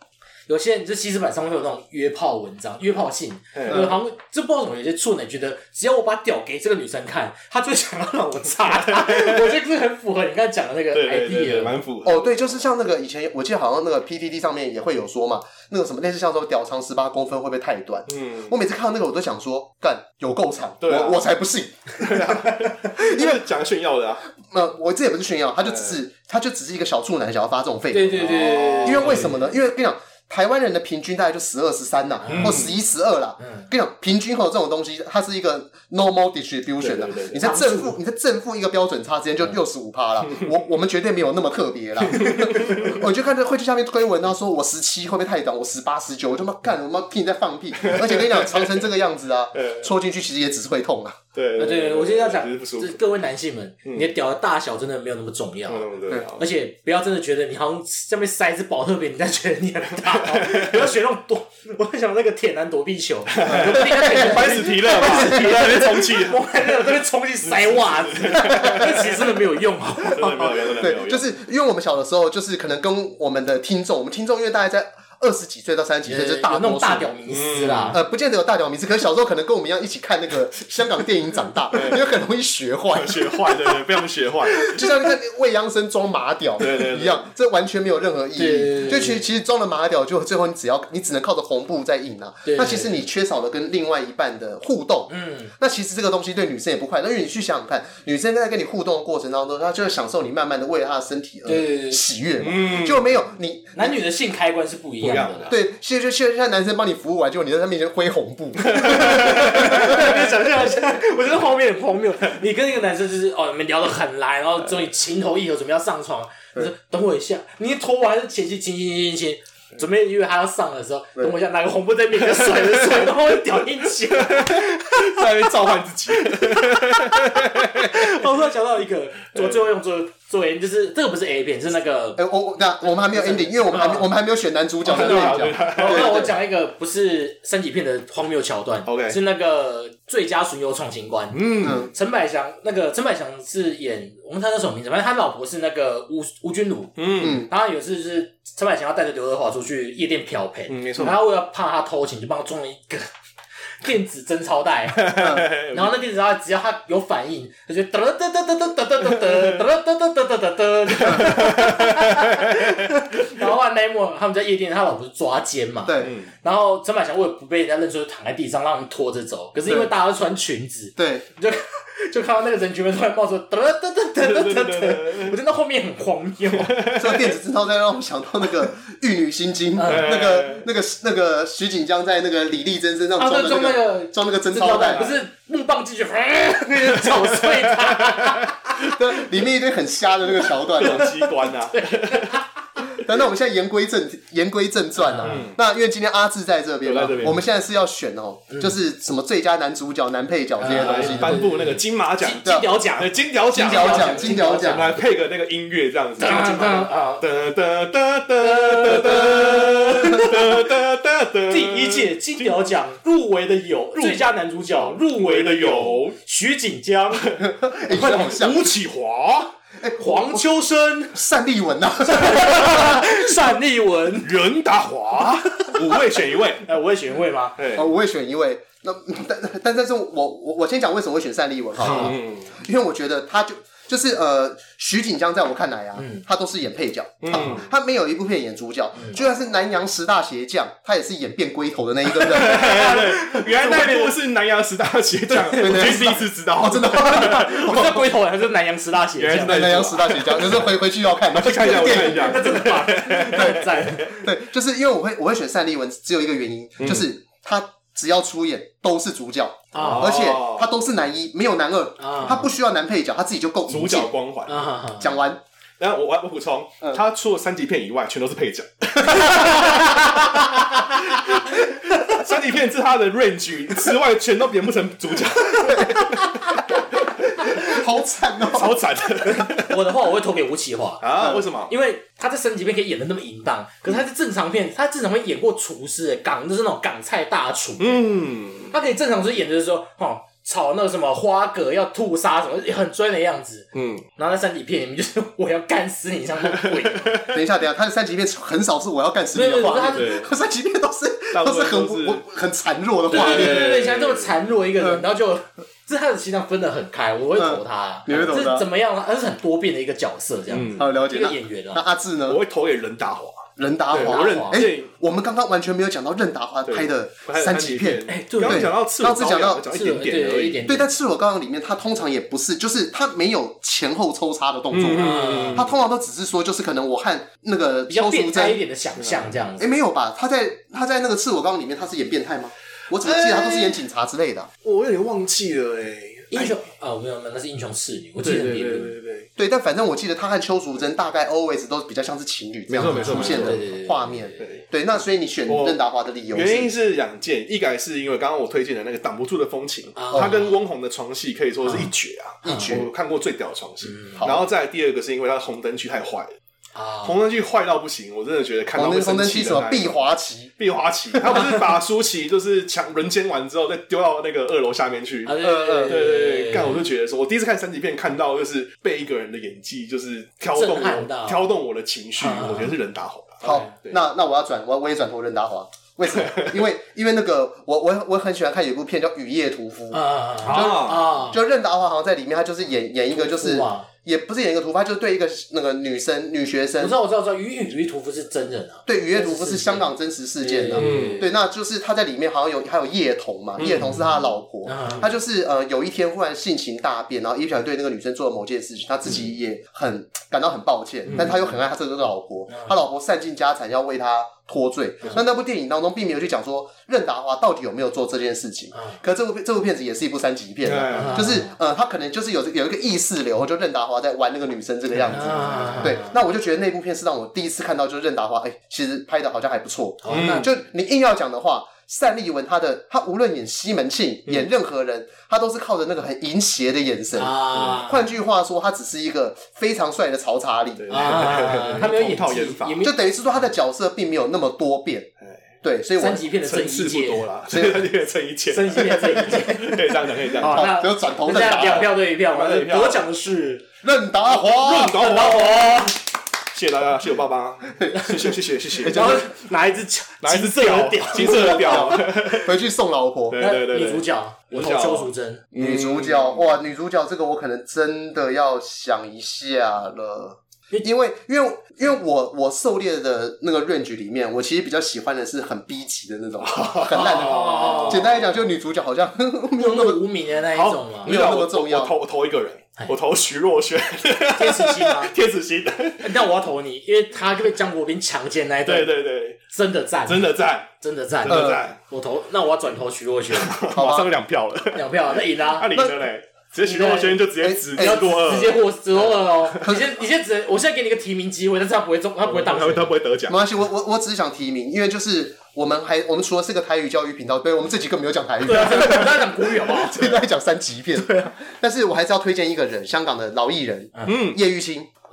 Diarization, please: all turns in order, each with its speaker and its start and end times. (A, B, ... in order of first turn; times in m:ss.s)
0:00.5-0:11.7 A
0:03.5-0:03.9 B
0:03.7-0:03.9 C
0:08.7-0:09.6 B
0:10.9-0:12.2 B
0:12.0-0:23.4 C
0:18.1-0:18.5 B
0:20.8-0:21.2 B
0:22.0-0:24.3 B
0:24.4-0:51.2 C
0:25.6-0:26.0 B
0:27.9-0:29.3 A
0:28.2-0:29.4 B
0:32.2-0:32.7 A
0:32.3-0:32.7 B
0:33.4-0:33.7 A
0:36.8-0:37.4 B
0:37.4-0:38.0 A
0:42.1-0:43.0 B
0:47.8-0:48.8 B
0:49.6-0:49.9 B
0:51.3-0:53.0 B
0:51.6-1:10.7 A
0:55.7-0:56.4 B
1:00.0-1:00.9 B
1:03.3-1:06.9 B
1:03.5-1:05.8 C
1:07.4-1:09.4 B
1:08.5-1:08.9 C
1:10.0-1:11.2 B
1:10.8-1:17.1 C
1:16.0-1:18.0 A
1:17.3-1:18.0 B
1:17.9-1:23.8 C
1:21.7-1:22.0 B
1:22.9-1:24.9 B
1:24.6-1:44.0 C
1:26.6-1:27.2 B
1:28.4-1:29.2 A
1:32.4-1:32.9 A
1:35.1-1:35.5 A
1:41.4-1:42.0 A
1:42.4-1:43.0 B
1:43.7-1:45.5 A
1:45.0-1:45.5 B
1:45.5-1:50.1 C
1:48.6-1:50.0 B
1:48.7-2:05.5 A
2:02.4-2:03.0 B
2:04.1-2:08.1 B
2:06.3-2:12.2 A
2:12.2-2:16.3 C
2:12.8-2:14.1 A
2:14.8-2:16.2 B
2:14.8-2:33.1 A
2:18.8-2:19.2 B
2:21.3-2:21.8 B
2:21.6-2:21.9 C
2:27.0-2:27.4 B
2:27.2-2:27.5 C
2:30.7-2:31.2 B
2:33.8-2:56.8 A
2:35.0-2:35.9 B
2:39.2-2:39.5 B
2:41.0-2:42.9 B
2:45.8-2:46.1 C
2:46.0-2:46.3 B
2:51.0-2:51.2 C
2:54.2-2:55.4 B
2:56.6-2:57.2 B
2:56.9-3:05.1 C
2:59.8-3:00.1 A
2:59.8-3:00.6 B
3:03.2-3:08.9 A
3:04.8-3:05.2 B
3:07.0-3:08.5 B
3:08.8-3:11.1 C
3:10.7-3:12.4 B
3:10.8-3:12.4 A
3:13.0-3:21.5 C
3:15.0-3:15.4 A
3:15.2-3:15.6 B
3:16.8-3:17.4 B
3:20.6-3:25.0 A
3:20.6-3:32.7 B
3:22.4-3:22.8 C
3:23.5-3:24.9 C
3:26.2-3:27.2 A
3:28.4-3:30.6 A
3:31.5-3:37.4 A
3:34.0-3:36.2 B
3:37.4-3:38.7 C
3:37.9-3:38.5 A
3:38.3-3:39.5 B
3:39.8-3:40.4 C
3:40.0-3:41.2 A
3:41.1-3:43.2 C
3:42.1-3:44.3 A
3:44.2-3:46.6 B
3:46.6-3:47.6 A
3:47.6-3:47.9 B
3:47.7-4:02.9 C
3:51.8-3:52.2 A
3:51.8-3:52.5 B
3:56.0-3:56.2 A
3:57.2-3:57.6 B
3:59.0-3:59.2 A
4:02.2-4:07.9 B
4:02.4-4:04.1 A
4:05.3-4:08.1 C
4:05.4-4:09.7 A
4:09.2-4:10.7 B
4:09.4-4:12.7 C
4:11.3-4:14.1 B
4:11.7-4:14.2 A
4:13.3-4:24.1 C
4:16.8-4:17.0 B
4:19.7-4:20.2 A
4:19.7-4:20.7 B
4:22.0-4:22.5 A
4:23.7-4:24.6 B
4:24.5-4:25.1 A
4:25.0-4:25.4 C
4:25.8-4:37.7 B
4:29.1-4:30.8 A
4:35.6-4:36.8 C
4:37.4-4:38.8 C
4:38.4-4:39.8 B
4:39.2-4:48.1 A
4:41.0-4:41.7 B
4:47.8-4:48.7 B
4:48.7-4:57.2 A
4:53.7-4:54.0 B
4:56.4-4:57.4 B
4:57.3-5:03.8 C
4:59.3-5:00.2 A
4:59.9-5:00.3 B
5:01.3-5:02.2 B
5:03.1-5:04.4 B
5:03.1-5:11.8 A
5:04.8-5:05.0 C
5:07.4-5:08.7 C
5:10.5-5:10.9 B
5:10.8-5:12.4 C
5:12.3-5:14.9 B
5:13.6-5:19.6 C
5:13.9-5:14.6 A
5:16.7-5:20.6 B
5:18.1-5:18.7 A
5:19.7-5:20.9 A
5:20.6-5:28.6 C
5:24.7-5:25.7 B
5:25.0-5:25.6 A
5:27.9-5:29.7 A
5:29.0-5:29.3 B
5:29.6-5:34.5 C
5:33.0-5:33.8 B
5:34.6-5:36.6 B
5:36.3-5:38.9 A
5:38.2-5:39.3 B
5:39.4-5:46.7 C
5:42.7-5:43.6 B
5:42.8-5:44.4 A
5:44.4-5:44.6 B
5:45.5-5:45.8 B
5:46.3-5:56.3 B
5:50.0-5:50.5 A
5:50.1-5:50.4 C
5:51.6-5:51.9 A
5:52.4-5:52.9 C
5:52.4-5:52.7 A
5:53.9-5:54.2 A
5:54.2-5:54.4 C
5:56.7-5:57.2 A
5:57.0-6:00.0 B
5:58.7-6:00.5 C
6:00.6-6:14.0 B
6:05.2-6:06.8 A
6:05.4-6:06.0 C
6:10.6-6:11.4 A
6:12.2-6:12.7 A
6:13.4-6:27.0 C
6:13.4-6:13.7 A
6:16.1-6:16.6 B
6:19.9-6:21.4 A
6:20.4-6:21.1 B
6:23.1-6:23.9 A
6:26.8-6:29.9 A
6:28.9-7:10.9 C
6:30.4-6:31.3 A
6:30.7-6:31.3 B
6:33.6-6:34.0 B
6:34.6-6:35.1 A
6:41.1-6:41.4 B
6:42.5-6:42.7 A
6:50.6-6:51.3 B
6:50.9-6:51.5 A
6:55.1-6:56.0 B
6:55.1-6:56.2 A
7:00.0-7:00.5 A
7:00.1-7:00.5 B
7:07.1-7:08.0 A
7:10.8-7:12.8 B
7:10.9-7:13.0 A
7:12.8-7:15.1 C
7:15.6-7:16.3 C
7:16.0-7:17.2 A
7:16.4-7:20.7 B
7:17.5-7:17.9 C
7:18.5-7:19.8 A
7:18.8-7:19.4 C
7:20.4-7:23.7 A
7:20.4-7:21.9 C
7:21.6-7:23.0 B
7:23.8-7:25.3 C
7:24.4-7:26.0 B
7:24.9-7:25.9 A
7:26.5-7:29.2 B
7:27.8-7:29.3 C
7:28.9-7:32.2 A
7:30.2-7:32.5 B
7:31.1-7:33.4 C
7:33.3-7:36.5 B
7:33.4-7:35.4 A
7:35.5-7:50.0 C
7:46.4-7:48.1 B
7:46.9-7:48.1 A
7:49.5-7:51.1 A
7:50.5-7:56.2 B
7:51.0-7:51.9 C
7:54.3-7:55.1 A
7:56.0-7:58.9 A
7:58.6-7:59.4 B
7:59.5-8:03.6 A
8:00.0-8:00.7 B
8:01.2-8:01.8 B
8:01.3-8:01.6 C
8:03.3-8:09.7 B
8:03.7-8:04.1 C
8:04.7-8:05.8 A
8:06.6-8:12.9 A
8:07.4-8:08.0 C
8:09.6-8:09.9 C
8:12.2-8:13.4 B
8:13.3-8:24.9 C
8:18.4-8:20.0 A
8:21.0-8:21.3 A
8:24.0-8:24.4 B